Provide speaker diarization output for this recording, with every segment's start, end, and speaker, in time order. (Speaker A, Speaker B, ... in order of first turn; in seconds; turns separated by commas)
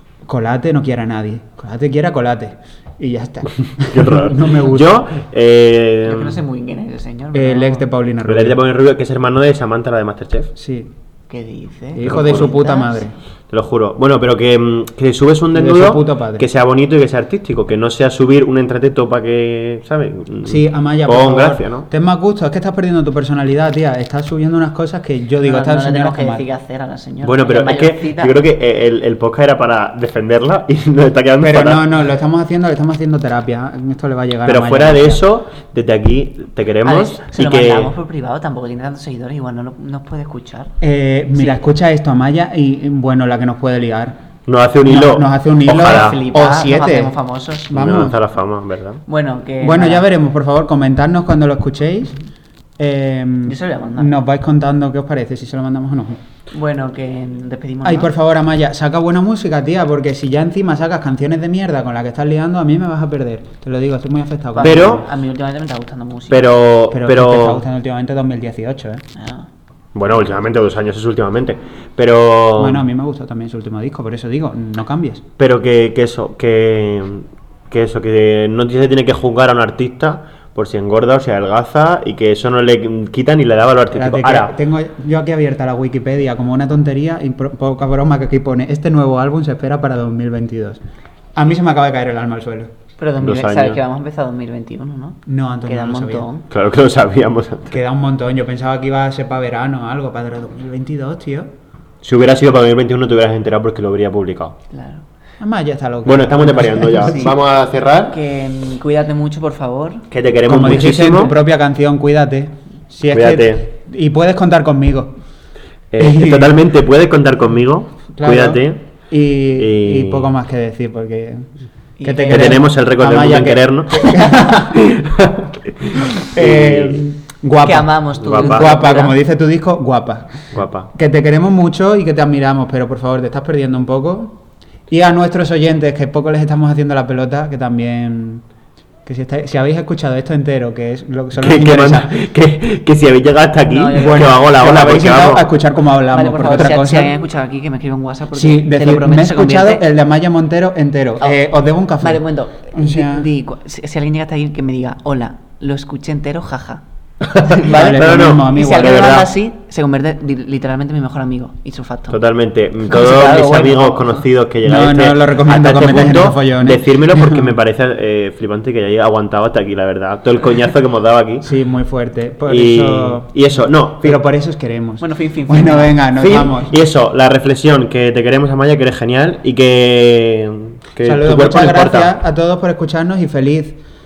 Speaker A: 0.3-5.0, Speaker B: 3.8-6.4, Speaker C: 6.0-7.8, Speaker A: 7.3-8.6, Speaker B: 8.2-10.5, Speaker A: 10.6-10.9, Speaker C: 11.3-13.1, Speaker A: 11.9-13.1, Speaker B: 12.0-12.5, Speaker B: 13.5-21.9, Speaker A: 15.5-16.5, Speaker A: 20.4-26.4, Speaker C: 25.4-28.3, Speaker B: 27.2-31.8, Speaker A: 31.4-35.2, Speaker B: 34.5-37.9, Speaker C: 36.8-40.7, Speaker A: 40.8-44.2, Speaker C: 41.3-41.6, Speaker B: 44.5-46.2, Speaker A: 44.8-47.1, Speaker C: 45.7-47.7, Speaker A: 47.7-48.2, Speaker B: 47.7-49.0, Speaker C: 49.1-50.0, Speaker A: 49.6-52.1, Speaker A: 52.8-56.2, Speaker C: 53.5-54.1, Speaker C: 56.5-58.1, Speaker A: 57.8-65.0, Speaker C: 64.5-66.4, Speaker B: 64.6-65.0, Speaker B: 66.3-67.6, Speaker A: 66.9-69.0, Speaker C: 69.1-69.5, Speaker B: 69.9-72.8, Speaker A: 72.6-75.2, Speaker B: 75.4-84.5, Speaker A: 83.9-90.8, Speaker A: 91.3-92.7, Speaker C: 93.0-96.5, Speaker B: 93.2-93.8, Speaker A: 95.2-96.3, Speaker B: 96.5-97.8, Speaker A: 97.7-101.5, Speaker B: 102.0-104.6, Speaker C: 104.7-105.0, Speaker A: 105.4-107.3, Speaker B: 106.0-108.2, Speaker C: 107.0-107.4, Speaker C: 108.1-110.0, Speaker B: 110.1-111.4, Speaker A: 110.5-115.1, Speaker B: 113.1-113.7, Speaker B: 115.9-118.8, Speaker A: 116.0-116.6, Speaker A: 118.2-121.5, Speaker B: 119.6-120.3, Speaker C: 122.0-122.7, Speaker A: 122.0-124.8, Speaker B: 122.3-127.0, Speaker A: 126.3-138.4, Speaker C: 127.6-129.2, Speaker B: 128.2-128.7, Speaker B: 130.5-130.9, Speaker A: 139.0-142.1, Speaker B: 141.4-145.5, Speaker C: 143.6-144.4, Speaker A: 144.0-147.1, Speaker C: 146.1-149.8, Speaker A: 148.3-153.3, Speaker C: 152.0-156.8, Speaker B: 157.2-159.3, Speaker C: 157.4-162.2, Speaker A: 157.6-159.0, Speaker B: 162.1-171.5, Speaker C: 162.9-164.2, Speaker A: 164.6-167.5, Speaker A: 171.4-173.3, Speaker B: 172.5-174.2, Speaker A: 174.0-176.8, Speaker C: 175.0-176.0, Speaker B: 176.1-182.1, Speaker A: 181.0-183.8